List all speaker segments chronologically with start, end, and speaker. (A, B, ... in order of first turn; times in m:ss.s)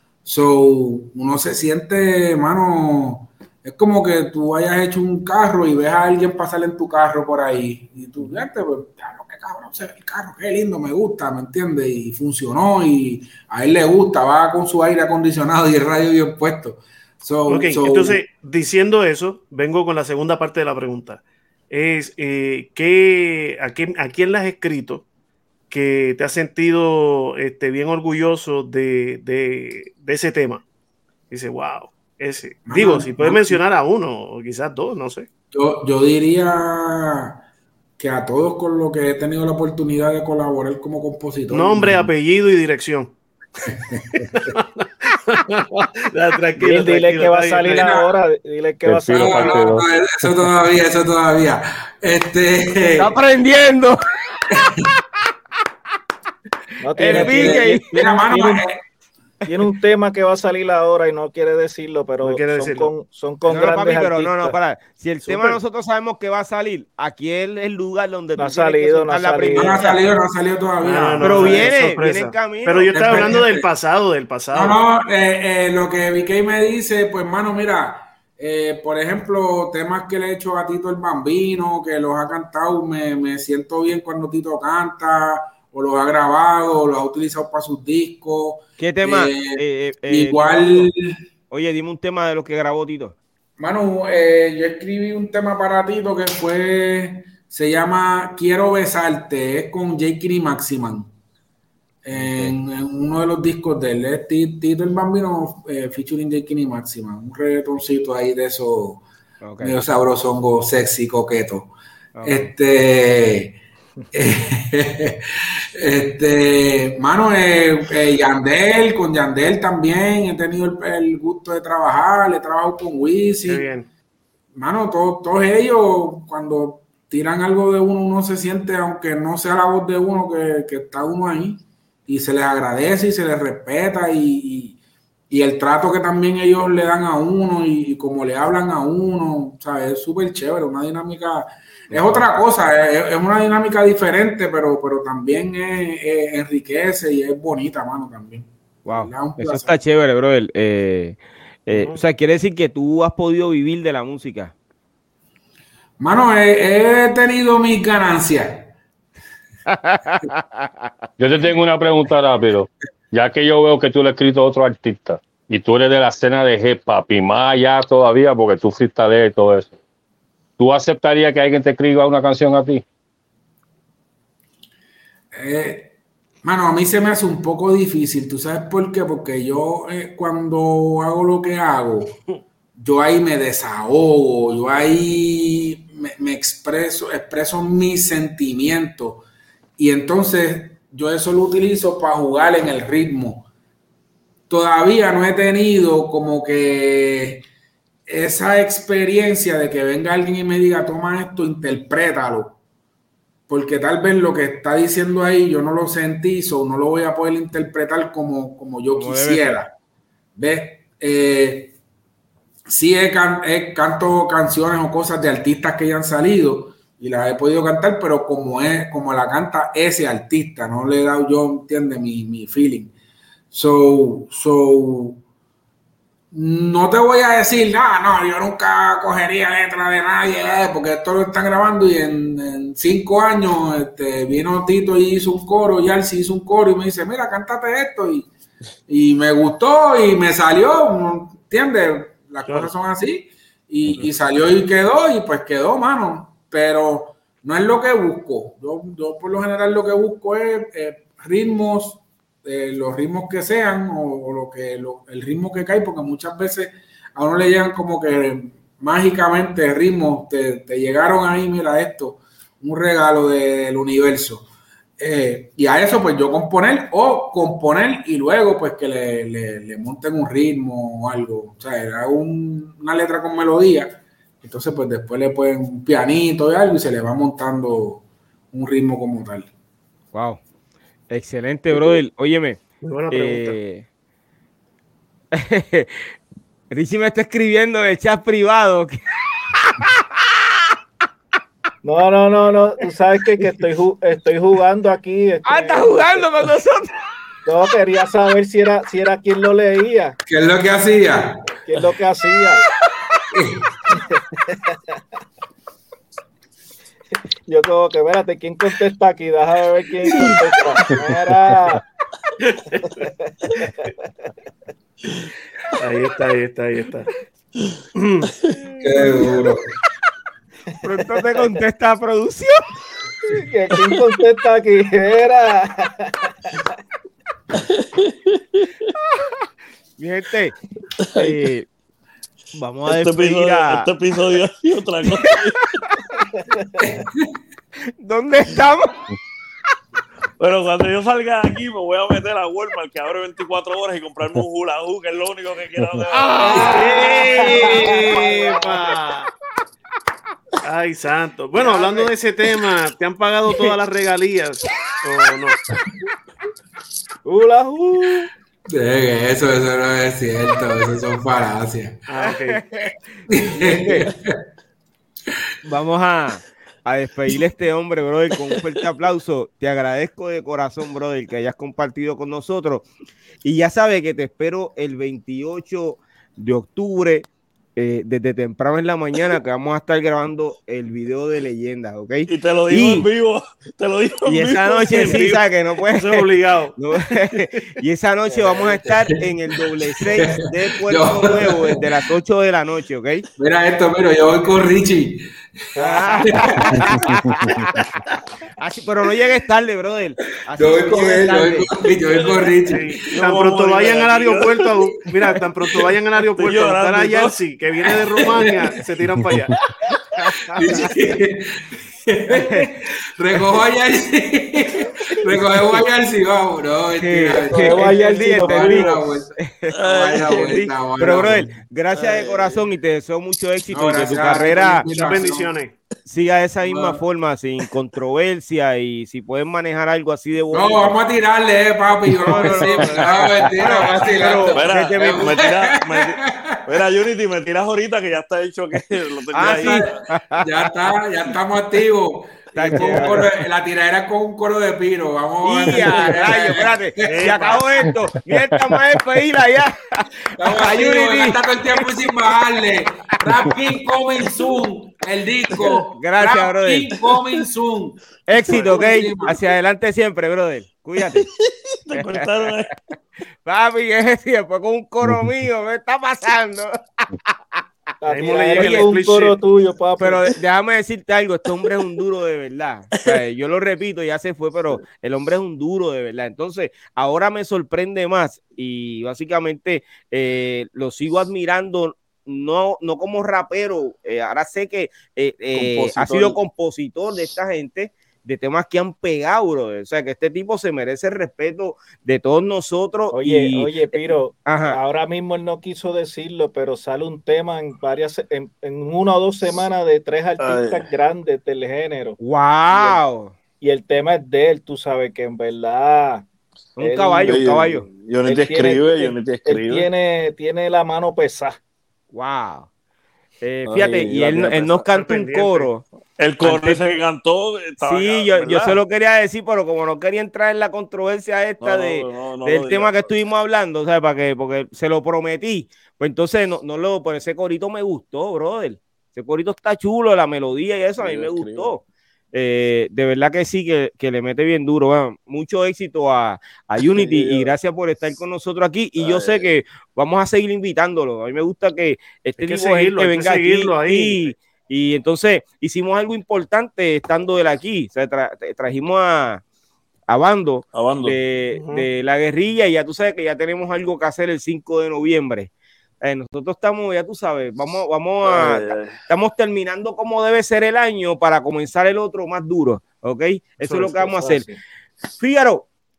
0:00.2-0:18.2 A
0:17.5-0:25.0 B
0:25.7-0:30.6 B
0:31.3-0:35.3 B
0:32.7-0:33.6 A
0:35.5-0:37.4 A
0:38.0-0:42.1 A
0:41.5-0:43.2 B
0:43.7-0:48.0 B
0:43.7-0:44.2 A
0:46.6-0:49.8 C
0:47.6-0:48.1 A
0:48.8-0:50.3 D
0:49.1-0:53.1 A
0:53.0-0:54.1 E
0:54.5-0:54.9 A
0:56.8-0:58.7 C
0:57.0-0:57.8 E
0:57.0-0:58.8 A
0:59.5-1:04.6 C
1:02.2-1:02.9 B
1:03.5-1:10.0 E
1:05.3-1:05.6 B
1:08.4-1:09.9 C
1:09.5-1:11.8 A
1:10.8-1:14.8 B
1:11.2-1:13.4 E
1:12.9-1:13.7 A
1:14.5-1:31.2 A
1:28.8-1:30.9 E
1:31.5-1:33.2 E
1:33.6-1:41.1 A
1:42.0-1:49.0 A
1:42.1-1:42.6 E
1:49.4-1:49.8 E
1:49.6-1:51.7 A
1:52.2-1:52.5 E
1:52.2-1:53.6 A
1:54.1-1:55.2 A
1:55.8-2:03.7 A
2:03.5-2:03.9 B
2:04.5-2:14.8 A
2:15.3-2:29.7 A
2:21.9-2:22.2 E
2:28.9-2:34.5 E
2:31.7-2:32.0 B
2:36.0-2:38.7 A
2:39.7-2:40.8 E
2:41.2-2:49.7 D
2:50.6-2:52.8 D
2:55.3-2:55.9 A
2:56.4-3:02.2 A
3:02.8-3:09.2 A
3:09.8-3:13.5 A
3:14.5-3:17.4 A
3:18.1-3:22.6 A
3:23.5-3:29.7 A
3:29.0-3:29.5 E
3:30.4-3:31.8 A
3:32.7-3:42.9 A
3:43.5-3:45.2 A
3:46.3-3:58.3 A
3:58.9-4:24.5 A
4:25.0-4:39.5 A
4:40.1-4:40.4 E
4:41.1-4:43.8 E
4:42.8-4:43.6 B
4:45.3-4:46.1 E
4:46.7-4:49.0 E
4:49.6-4:50.7 E
4:51.8-4:56.2 C
4:55.4-4:56.9 E
4:57.5-5:00.2 C
5:00.3-5:01.5 A
5:01.7-5:02.6 C
5:03.3-5:03.7 A
5:04.0-5:04.8 C
5:07.5-5:11.8 C
5:12.8-5:13.9 C
5:15.8-5:17.1 B
5:18.0-5:18.3 B
5:18.8-5:19.6 A
5:18.9-5:19.3 C
5:20.8-5:22.7 E
5:20.9-5:21.6 C
5:23.3-5:26.6 C
5:27.6-5:28.7 F
5:30.0-5:30.6 E
5:31.1-5:31.7 E
5:32.5-5:33.9 E
5:32.9-5:35.8 F
5:36.8-5:37.3 A
5:38.0-5:39.0 E
5:40.4-5:46.6 F
5:46.2-5:47.0 E
5:46.4-5:49.0 C
5:46.7-5:49.3 B
5:50.6-5:55.6 B
5:51.6-5:52.1 C
5:57.2-5:58.3 C
5:58.7-6:02.0 A
6:02.1-6:02.6 B
6:02.2-6:02.9 E
6:03.3-6:04.4 A
6:03.4-6:04.1 E
6:05.6-6:12.8 E
6:13.4-6:23.0 E
6:22.3-6:25.3 F
6:24.3-6:33.2 E
6:24.9-6:25.4 B
6:26.0-6:26.8 B
6:28.3-6:28.8 B
6:30.1-6:31.8 A
6:33.4-6:35.2 A
6:35.8-6:36.7 C
6:35.8-6:37.8 E
6:36.2-6:37.0 A
6:38.6-6:41.7 E
6:40.6-6:43.0 A
6:42.7-6:49.6 B
6:43.1-6:44.7 F
6:46.4-6:47.4 F
6:48.3-6:48.7 A
6:50.2-6:50.9 E
6:50.6-7:01.5 A
6:52.3-6:52.7 E
6:57.0-6:59.7 E
6:57.6-6:58.8 F
6:59.7-7:00.7 F
7:00.3-7:04.8 E
7:01.9-7:02.6 F
7:03.7-7:05.5 A
7:04.9-7:05.8 B
7:06.1-7:11.0 E
7:06.6-7:07.0 A
7:10.5-7:16.6 A
7:12.2-7:15.4 E
7:12.3-7:13.3 F
7:14.5-7:20.0 F
7:19.3-7:20.4 E
7:19.4-7:27.4 A
7:22.5-7:23.3 E
7:25.4-7:32.1 E
7:27.0-7:27.7 F
7:30.4-7:39.4 A
7:35.6-7:36.9 E
7:38.3-7:41.3 E
7:41.8-7:42.7 F
7:41.9-7:42.2 E
7:43.4-7:47.6 E
7:48.0-7:50.2 C
7:48.1-7:49.4 B
7:48.6-7:48.9 A
7:50.0-8:14.8 E
8:05.5-8:06.4 F
8:13.1-8:22.2 C
8:20.4-8:20.9 F
8:22.2-8:23.3 E
8:22.7-8:23.0 C
8:23.6-8:26.3 C
8:26.8-8:27.9 E
8:26.8-8:27.5 C
8:27.2-8:29.9 F
8:28.2-8:31.6 C
8:32.1-8:32.7 E
8:33.4-8:35.8 E
8:33.7-8:34.7 F
8:34.9-8:35.7 B
8:36.2-8:38.8 F
8:36.4-8:36.8 E
8:37.8-9:09.4 E
8:41.6-8:43.1 F
8:51.0-8:51.8 F
8:56.9-8:57.5 F
8:59.0-8:59.5 F
9:02.4-9:04.3 B
9:10.1-9:15.5 E
9:10.7-9:11.2 F
9:11.6-9:11.9 B
9:16.0-9:24.5 E
9:18.2-9:19.0 F
9:23.6-9:24.6 C
9:25.2-9:25.7 E